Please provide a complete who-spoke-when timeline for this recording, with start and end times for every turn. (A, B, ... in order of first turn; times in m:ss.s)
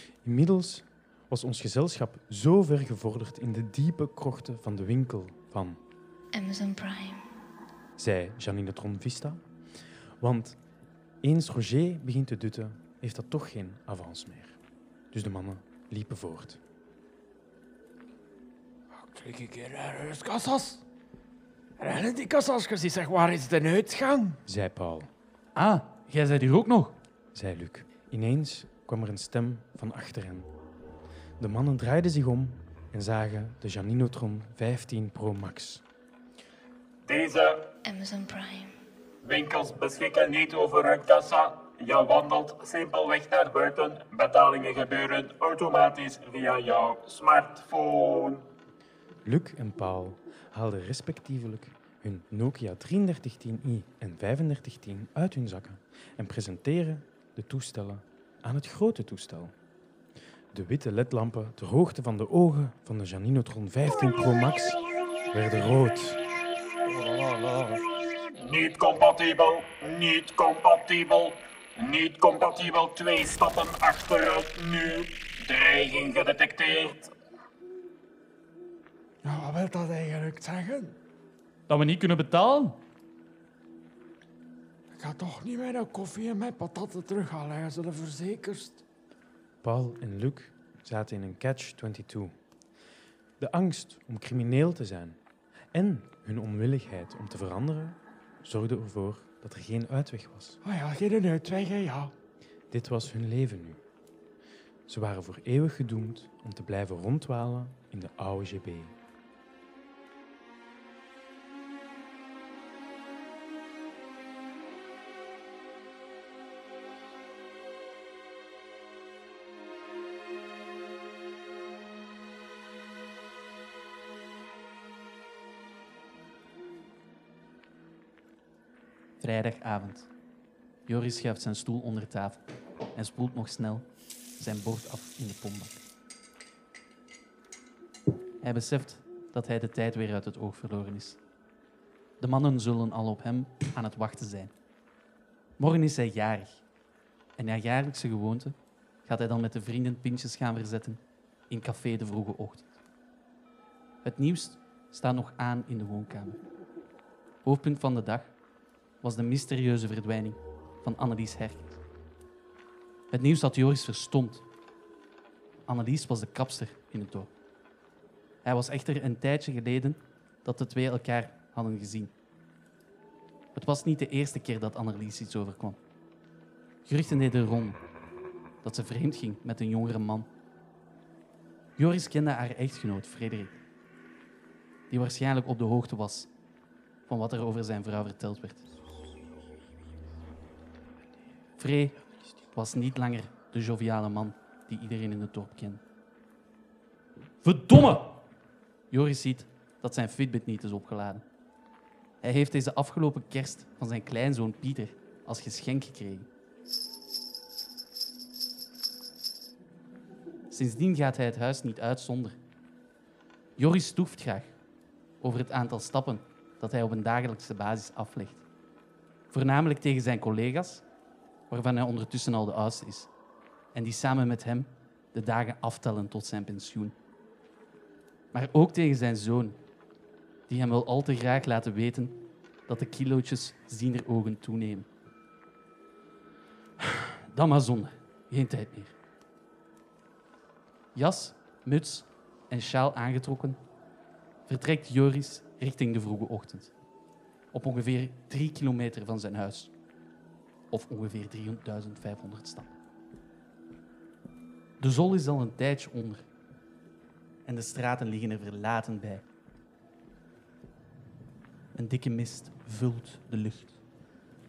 0:00.2-0:05.8 A
0:06.3-0:07.3 B
0:08.0-0:09.4 A
0:10.2-0:10.6 A
0:11.2-0:14.6 A
0:15.1-0:16.6 A
0:18.9-0:20.8 C
0:21.8-0:24.4 C
0:24.5-0:25.1 A
0:25.6-0:27.0 D
0:27.3-0:30.5 A
0:31.4-0:35.8 A
0:37.1-0:37.7 E
0:37.8-0:38.8 B
0:39.2-0:48.4 E
0:49.2-0:59.5 A
1:00.5-1:06.2 A
1:07.0-1:07.8 D
1:08.4-1:17.1 E
1:19.2-1:21.0 C
1:21.7-1:22.8 D
1:24.9-1:28.8 C
1:29.6-1:32.3 A
1:33.4-1:35.2 A
1:35.7-1:40.6 A
1:40.6-1:42.1 C
1:42.7-1:43.8 A
1:44.9-1:49.0 A
2:09.2-2:10.1 D
2:10.9-2:12.4 D
2:12.9-2:15.8 D
2:18.4-2:21.2 D
2:22.2-2:24.5 D
2:25.6-2:26.6 D
2:27.4-2:32.7 D
2:34.0-2:36.4 D
2:37.4-2:38.3 D
2:39.0-2:41.8 D
2:43.1-2:44.4 D
2:45.7-2:47.3 D
2:48.4-2:52.1 D
2:53.5-2:55.8 D
2:56.8-2:57.8 D
2:58.6-3:00.3 D
3:01.8-3:03.5 D
3:04.9-3:06.3 D
3:07.1-3:08.6 D
3:11.6-3:15.8 D
3:17.4-3:18.2 D
3:18.9-3:21.2 D
3:22.2-3:26.3 D
3:30.5-3:32.4 D
3:33.6-3:34.5 D
3:35.2-3:38.4 D
3:39.3-3:40.8 D
3:41.5-3:43.1 D
3:43.7-3:47.0 D
3:48.3-3:49.6 D
3:50.5-3:54.9 D
3:56.8-3:59.0 D
4:01.0-4:03.6 D
4:04.5-4:06.7 D
4:07.5-4:09.7 D
4:10.7-4:12.7 D
4:14.8-4:16.2 D
4:17.5-4:19.2 D
4:21.8-4:23.8 D